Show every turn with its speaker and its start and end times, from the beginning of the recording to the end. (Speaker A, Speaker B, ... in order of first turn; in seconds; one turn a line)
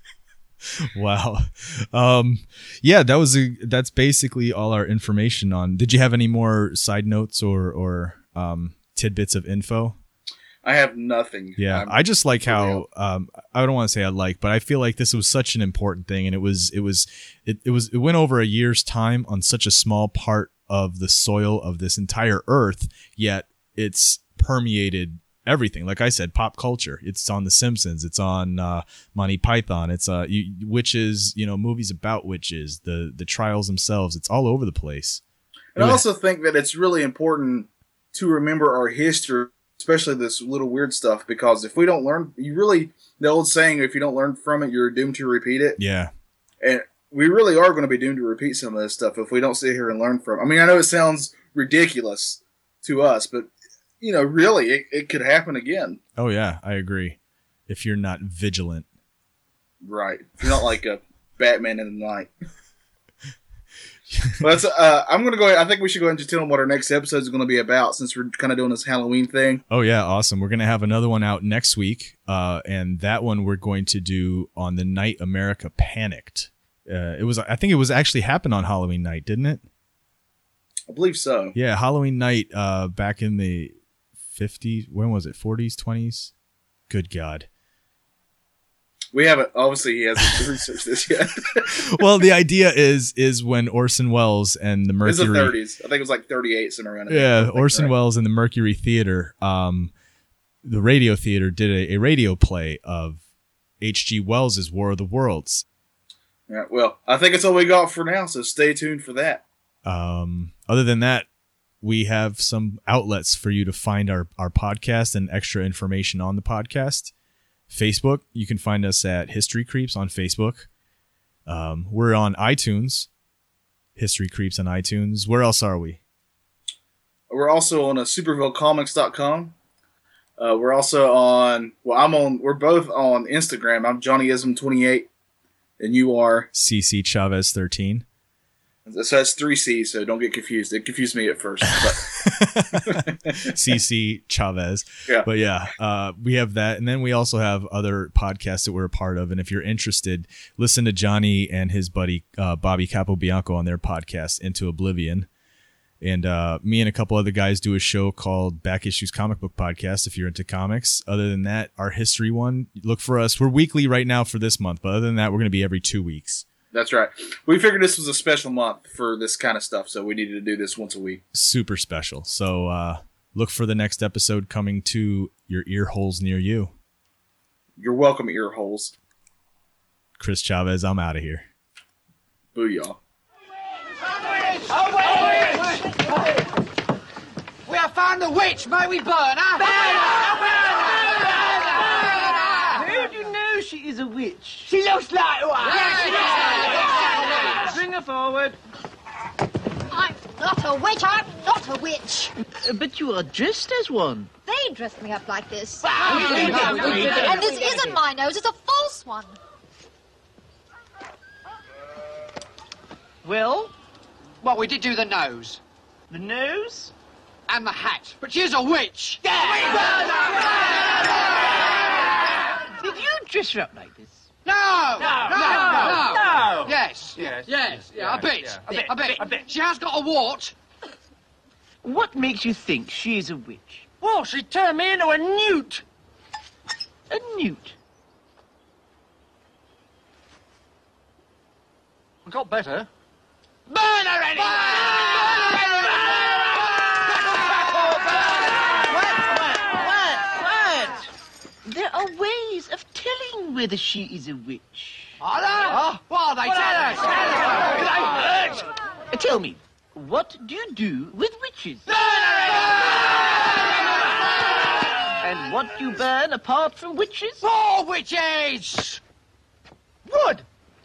Speaker A: 0.8-10.0
Speaker B: 10.6-12.8
Speaker A: 11.6-35.2
Speaker B: 35.7-45.8
Speaker A: 35.8-36.0
Speaker A: 45.8-46.1
Speaker B: 46.6-56.0
Speaker A: 56.2-58.9
Speaker B: 59.8-62.3
Speaker A: 64.1-64.4
Speaker B: 64.4-69.6
Speaker A: 69.7-79.6
Speaker B: 80.9-81.5
Speaker A: 81.5-83.7
Speaker A: 84.3-86.3
Speaker A: 86.9-87.5
Speaker B: 89.1-91.7
Speaker A: 91.8-95.5
Speaker B: 95.0-97.9
Speaker A: 97.1-99.9
Speaker A: 100.6-103.2
Speaker A: 103.8-105.6
Speaker B: 106.5-109.4
Speaker A: 109.8-111.3
Speaker A: 111.8-117.1
Speaker A: 117.7-120.7
Speaker A: 121.5-123.1
Speaker A: 124.0-126.0
Speaker B: 127.3-129.5
Speaker B: 130.4-135.1
Speaker B: 135.8-136.5
Speaker A: 136.5-138.0
Speaker B: 138.8-142.1
Speaker A: 141.8-155.3
Speaker B: 142.7-143.5
Speaker A: 156.0-166.4
Speaker B: 166.7-171.2
Speaker A: 171.3-176.7
Speaker B: 177.8-178.9
Speaker A: 180.2-181.5
Speaker B: 182.5-183.0
Speaker C: 184.3-185.9
Speaker D: 184.9-186.1
Speaker C: 187.7-190.0
Speaker D: 189.6-198.6
Speaker C: 192.2-192.7
Speaker C: 196.0-197.6
Speaker E: 199.9-202.3
Speaker D: 202.6-204.4
Speaker E: 204.4-206.0
Speaker D: 205.8-208.0
Speaker C: 206.0-207.4
Speaker E: 206.6-209.4
Speaker D: 213.2-213.7
Speaker C: 214.4-215.6
Speaker D: 216.1-216.9
Speaker C: 217.5-220.1
Speaker D: 219.2-220.5
Speaker D: 222.8-224.3
Speaker C: 224.4-230.5
Speaker D: 225.0-226.7
Speaker D: 227.9-229.4
Speaker D: 231.8-234.0
Speaker C: 234.0-235.8
Speaker D: 237.1-237.8
Speaker C: 242.2-242.9
Speaker C: 243.7-248.3
Speaker D: 248.9-251.1
Speaker D: 251.6-255.2
Speaker C: 255.2-258.6
Speaker D: 257.6-258.3
Speaker D: 259.1-261.9
Speaker C: 261.9-263.4
Speaker D: 265.2-267.5
Speaker C: 267.4-269.0
Speaker D: 270.1-270.4